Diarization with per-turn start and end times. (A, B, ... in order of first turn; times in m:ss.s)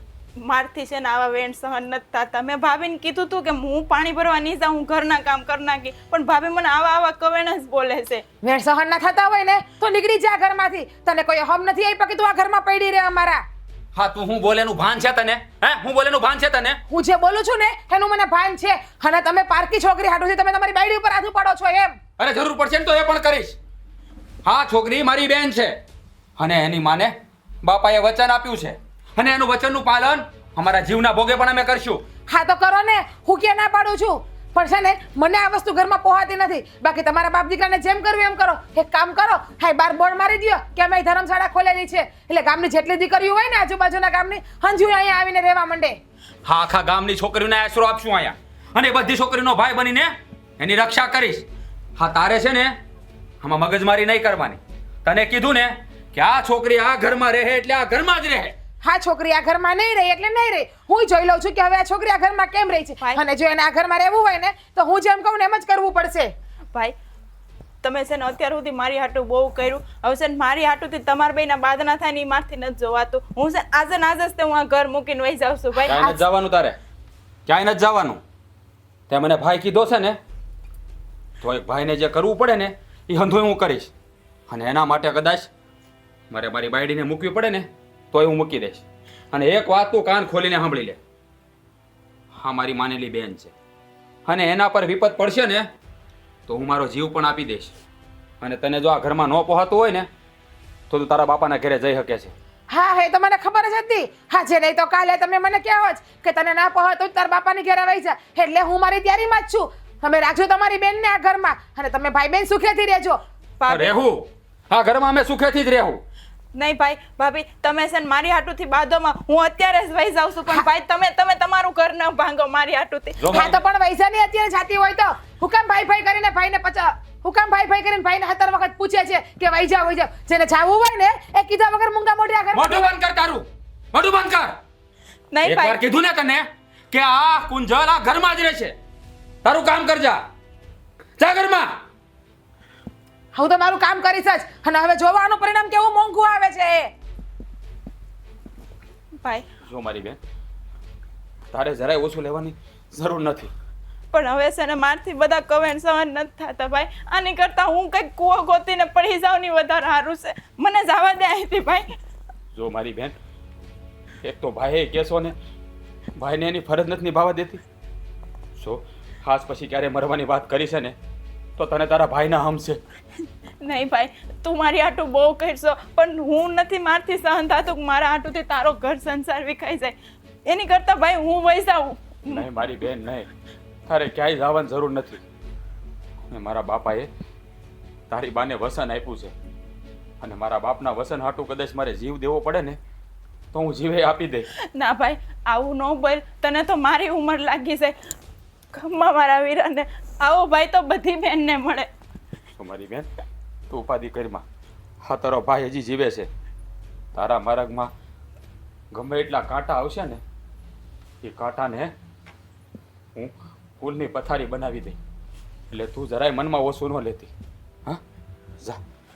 0:00.4-0:08.2 A
0:08.4-0:13.4 B
0:13.9-0:16.8 C
0:16.9-0:22.0 B
0:22.2-0:23.6 C
0:24.4-0:25.8 C
0:26.4-0:32.0 C
0:32.3-0:46.0 B
0:46.4-0:51.4 C
0:52.0-0:52.8 C
0:53.4-0:58.5 C
0:58.8-1:06.3 B
1:07.8-1:16.0 A
1:15.9-1:16.8 C
1:15.9-1:16.2 B
1:17.4-1:18.2 C
1:19.1-1:20.2 C
1:21.4-1:23.9 C
1:24.5-1:25.5 C
1:26.3-1:31.0 C
1:32.3-1:33.5 C
1:34.2-1:35.7 C
1:36.5-1:37.7 C
1:38.4-1:40.1 C
1:40.9-1:42.3 C
1:42.7-1:53.2 B
1:53.6-1:54.0 A
1:53.7-1:56.0 C
1:56.5-2:03.6 A
2:03.2-2:03.6 C
2:03.3-2:13.0 B
2:12.5-2:14.6 C
2:15.3-2:15.8 A
2:15.4-2:18.7 C
2:19.4-2:20.2 C
2:21.2-2:21.7 C
2:23.3-2:26.9 B
2:29.6-2:30.2 C
2:31.5-2:33.5 C
2:34.1-2:41.9 A
2:42.5-2:43.1 C
2:44.2-2:45.3 C
2:46.2-2:47.6 C
2:48.6-2:50.9 C
2:51.6-2:52.8 C
2:53.6-3:02.6 A
3:02.3-3:03.3 C
3:03.9-3:05.2 C
3:06.3-3:07.1 C
3:08.1-3:09.3 C
3:10.2-3:12.8 C
3:13.5-3:14.5 C
3:14.7-3:18.0 A
3:18.7-3:21.9 A
3:22.6-3:23.1 C
3:23.7-3:24.4 C
3:25.0-3:26.3 C
3:27.1-3:27.9 C
3:28.9-3:30.2 C
3:31.2-3:31.9 C
3:33.1-3:35.0 C
3:35.7-3:37.3 C